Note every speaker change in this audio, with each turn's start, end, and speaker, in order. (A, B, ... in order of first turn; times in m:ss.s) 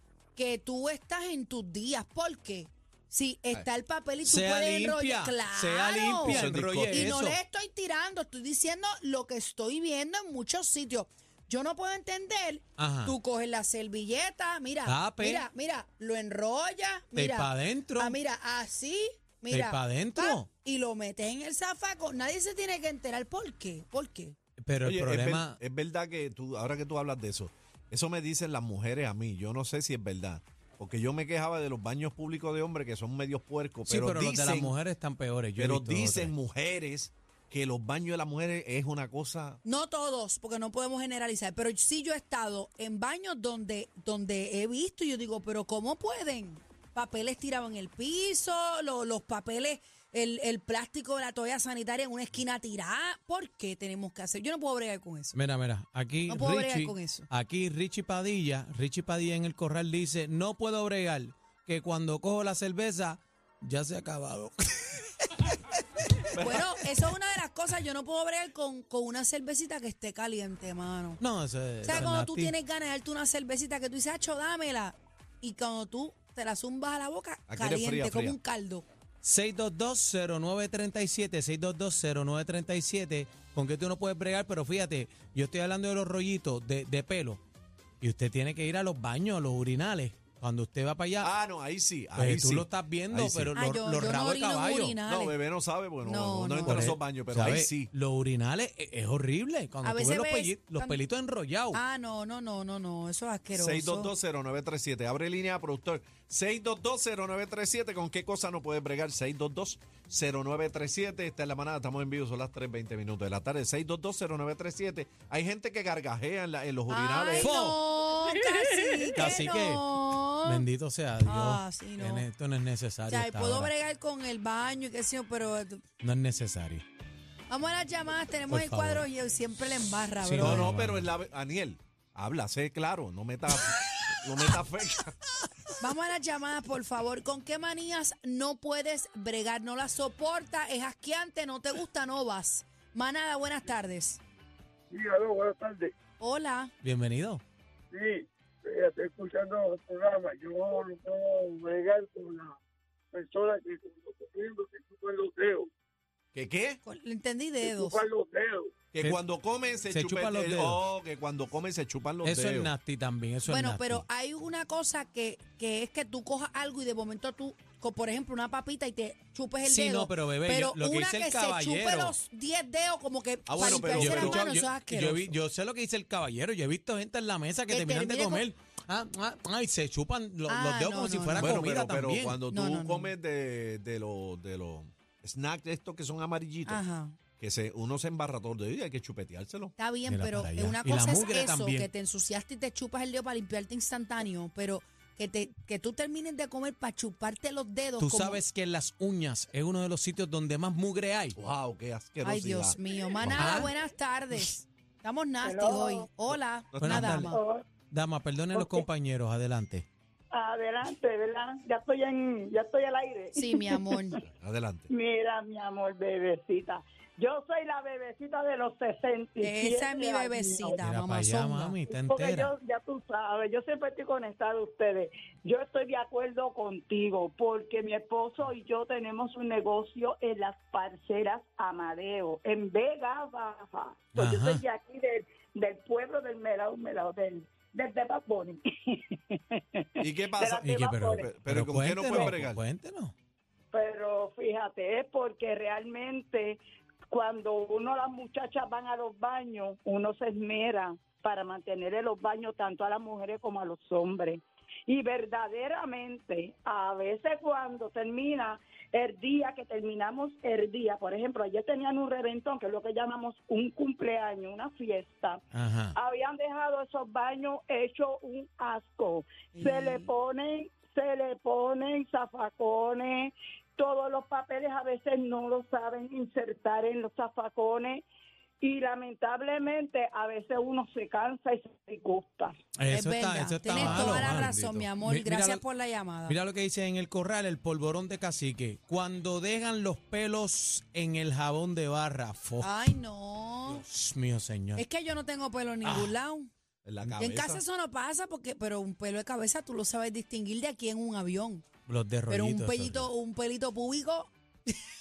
0:00.4-0:24.3 A
0:04.2-0:07.4 B
0:06.2-0:07.2 C
0:12.8-0:13.1 B
0:14.8-0:15.4 B
0:17.1-0:18.2 B
0:19.5-0:20.5 B
0:24.6-0:25.6 B
0:24.8-0:34.7 C
0:33.9-0:36.3 B
0:35.6-0:39.6 C
0:39.6-0:55.4 A
0:55.3-1:06.2 B
0:56.3-0:57.3 A
1:06.3-1:06.8 C
1:06.3-1:11.2 A
1:11.2-1:12.5 B
1:11.8-1:18.8 A
1:17.5-1:18.4 C
1:19.2-1:27.4 B
1:28.0-1:31.3 B
1:31.2-1:33.5 C
1:32.2-1:35.0 B
1:33.5-1:35.4 A
1:35.0-1:37.9 C
1:36.0-1:36.9 A
1:36.6-1:41.8 B
1:39.8-1:41.0 A
1:41.7-1:44.1 A
1:43.5-1:57.7 C
1:56.9-2:00.6 A
1:57.4-1:57.8 B
1:59.1-2:03.7 B
2:01.2-2:02.3 A
2:03.1-2:05.8 A
2:06.0-2:06.8 B
2:07.5-2:10.7 A
2:08.5-2:09.0 B
2:10.2-2:11.1 B
2:10.4-2:15.2 C
2:15.8-2:24.2 A
2:24.9-2:25.9 D
2:26.2-2:26.7 A
2:26.8-2:27.4 B
2:27.9-2:32.6 D
2:33.1-2:35.7 D
2:36.3-2:36.8 C
2:36.8-2:38.0 A
2:37.6-2:38.7 D
2:38.9-2:42.7 C
2:39.9-2:40.8 B
2:42.2-2:44.0 B
2:43.5-2:55.4 A
2:49.6-2:52.1 B
2:53.5-2:54.5 C
2:53.6-3:02.4 B
2:57.7-2:58.4 A
3:00.5-3:01.6 A
3:01.4-3:06.8 C
3:02.5-3:03.1 A
3:06.6-3:07.2 A
3:07.4-3:09.7 C
3:09.8-3:18.4 A
3:10.1-3:11.9 B
3:18.0-3:21.4 B
3:21.4-3:23.7 C
3:22.2-3:27.4 A
3:23.3-3:23.7 B
3:25.4-3:26.1 E
3:26.7-3:27.2 C
3:26.8-3:27.4 B
3:27.3-3:27.6 E
3:27.9-3:29.8 B
3:28.5-3:28.8 E
3:30.3-3:34.2 E
3:33.3-3:34.2 A
3:34.2-3:34.9 C
3:34.9-3:40.8 E
3:39.4-3:41.8 A
3:40.8-3:42.5 B
3:41.9-4:01.3 E
3:54.1-3:54.6 B
4:00.0-4:02.6 C
4:00.6-4:03.1 B
4:03.7-4:25.4 E
4:25.5-4:25.9 B
4:25.9-4:38.0 E
4:29.5-4:30.1 A
4:38.6-4:42.6 E
4:42.8-4:45.6 B
4:42.9-4:46.4 A
4:43.7-4:44.9 C
4:46.3-4:52.7 B
4:52.6-4:53.8 A
4:53.7-4:54.8 B
4:54.8-4:56.5 A
4:55.8-4:56.1 B
4:56.8-4:57.6 C
4:57.2-5:01.6 A
5:01.9-5:03.1 B
5:02.3-5:04.8 A